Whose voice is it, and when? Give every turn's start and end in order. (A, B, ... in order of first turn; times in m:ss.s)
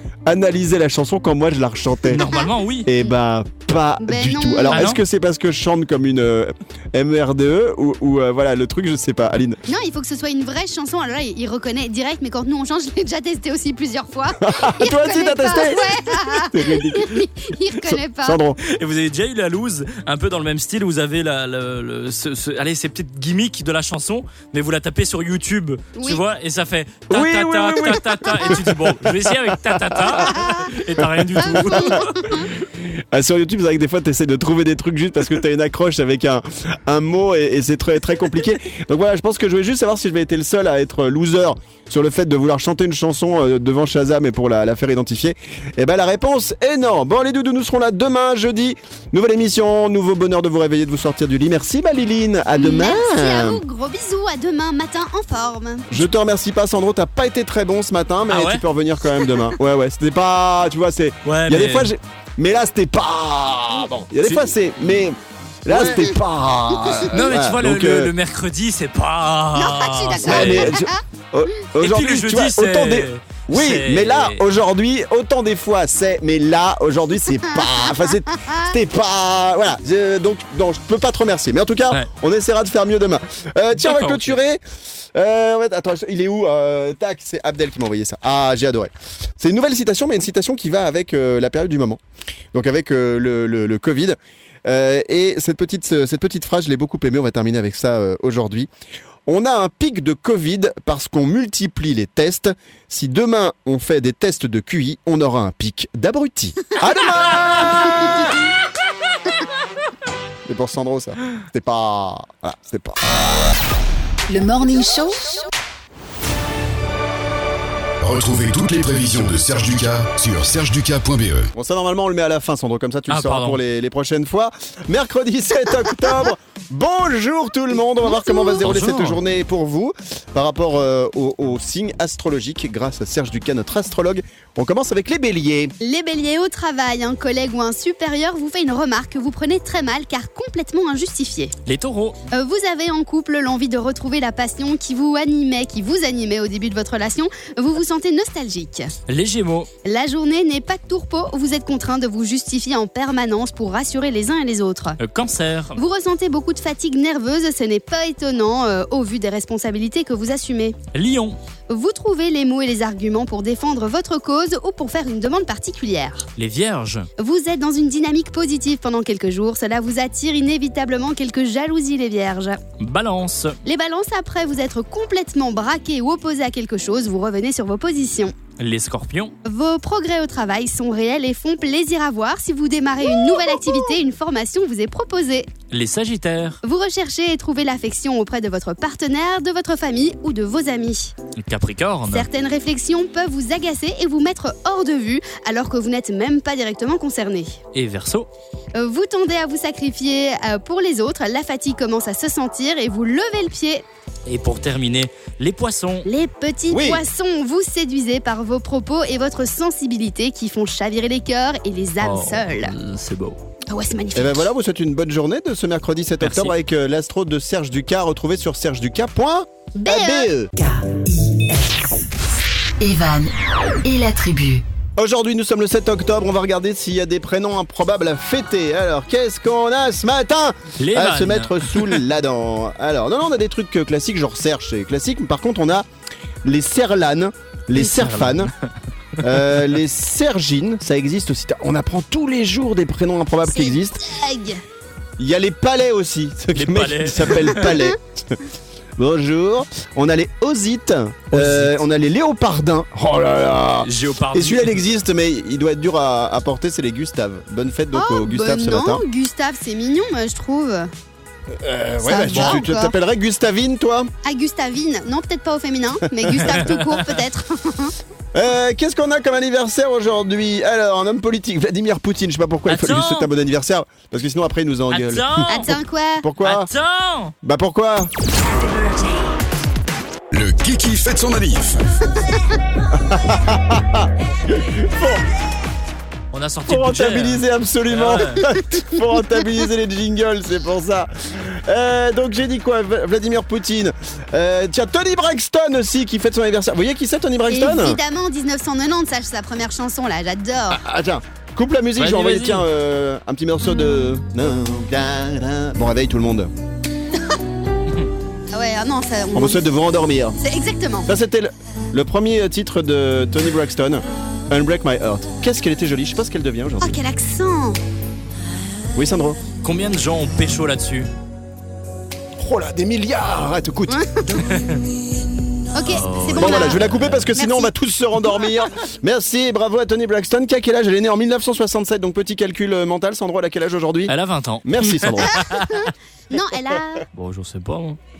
0:00.2-0:02.2 A
0:02.1-0:02.9 B
0:02.3-0:03.1 C
0:02.8-0:09.6 A
0:04.0-0:04.8 C
0:04.7-0:05.0 B
0:09.7-0:18.4 C
0:14.4-0:18.6 A
0:18.6-0:32.4 B
0:25.9-0:26.2 C
0:27.1-0:29.1 A
0:31.0-0:32.0 A
0:31.4-0:32.5 C
0:33.1-0:53.6 A
0:52.5-0:56.0 C
0:55.9-1:08.1 A
0:58.3-0:58.6 B
1:01.2-1:01.9 B
1:05.7-1:06.1 C
1:07.1-1:10.8 B
1:09.5-1:11.0 C
1:10.2-1:24.6 A
1:11.8-1:14.4 B
1:17.5-1:18.7 C
1:23.8-1:24.4 B
1:25.1-1:32.0 A
1:32.5-1:38.7 A
1:39.3-1:48.2 A
1:50.4-1:53.0 A
1:54.3-1:55.4 D
1:58.0-2:01.5 E
2:01.5-2:15.7 A
2:03.1-2:03.6 B
2:08.0-2:08.6 C
2:08.6-2:09.2 B
2:15.8-2:21.5 C
2:21.6-2:22.2 B
2:22.3-2:28.9 C
2:29.1-2:29.7 B
2:29.8-2:35.0 C
2:35.0-2:35.8 B
2:35.8-2:40.8 C
2:40.9-2:41.4 B
2:41.7-2:46.3 C
2:46.4-2:47.1 B
2:47.2-2:52.6 C
2:52.8-2:53.6 B
2:53.6-2:58.3 C
2:58.6-2:59.3 B
2:59.4-3:05.5 C
3:05.7-3:06.6 B
3:06.6-3:11.1 C
3:11.4-3:12.3 B
3:12.1-3:17.6 C
3:17.7-3:18.3 B
3:18.7-3:23.8 C
3:24.2-3:26.1 B
3:26.0-3:32.7 C
3:26.7-3:27.0 A
3:32.0-3:33.4 B
3:33.7-3:34.5 C
3:34.1-3:40.5 A
3:36.2-3:36.5 B
3:39.7-3:40.3 C
3:40.6-3:41.9 D
3:42.8-3:44.6 D
3:45.0-3:55.9 A
3:50.8-3:52.0 B
3:56.4-3:58.5 A
3:57.8-3:58.5 B
3:59.2-4:04.0 A
4:03.4-4:04.6 C
4:05.2-4:08.4 A
4:06.5-4:07.7 B
4:07.5-4:07.9 C
4:09.0-4:19.0 A
4:11.3-4:11.7 B
4:13.8-4:14.8 B
4:17.9-4:20.9 C
4:21.5-4:24.1 A
4:22.0-4:22.9 C
4:22.3-4:22.6 B
4:24.2-4:27.9 C
4:26.5-4:27.1 B
4:28.3-4:36.7 A
4:32.7-4:33.3 B
4:34.9-4:35.7 B
4:35.5-4:36.2 C
4:36.4-4:37.3 B
4:37.4-4:38.1 A
4:40.3-4:41.8 E
4:42.9-4:45.2 A
4:46.3-4:48.4 B
4:46.7-4:58.0 A
4:48.5-4:48.8 C
4:57.5-5:00.8 C
5:00.7-5:06.5 A
5:02.0-5:02.6 B
5:08.5-5:09.7 C
5:09.3-5:10.4 A
5:10.4-5:11.1 C
5:11.0-5:17.0 A
5:16.8-5:17.8 C
5:18.9-5:19.4 A
5:19.6-5:21.1 B
5:22.4-5:24.0 A
5:23.9-5:24.4 C
5:24.4-5:24.8 B
5:25.7-5:26.8 C
5:25.9-5:27.3 B
5:26.4-5:35.4 A
5:27.4-5:27.7 C
5:34.1-5:35.9 B
5:35.4-5:37.0 C
5:37.1-5:38.0 B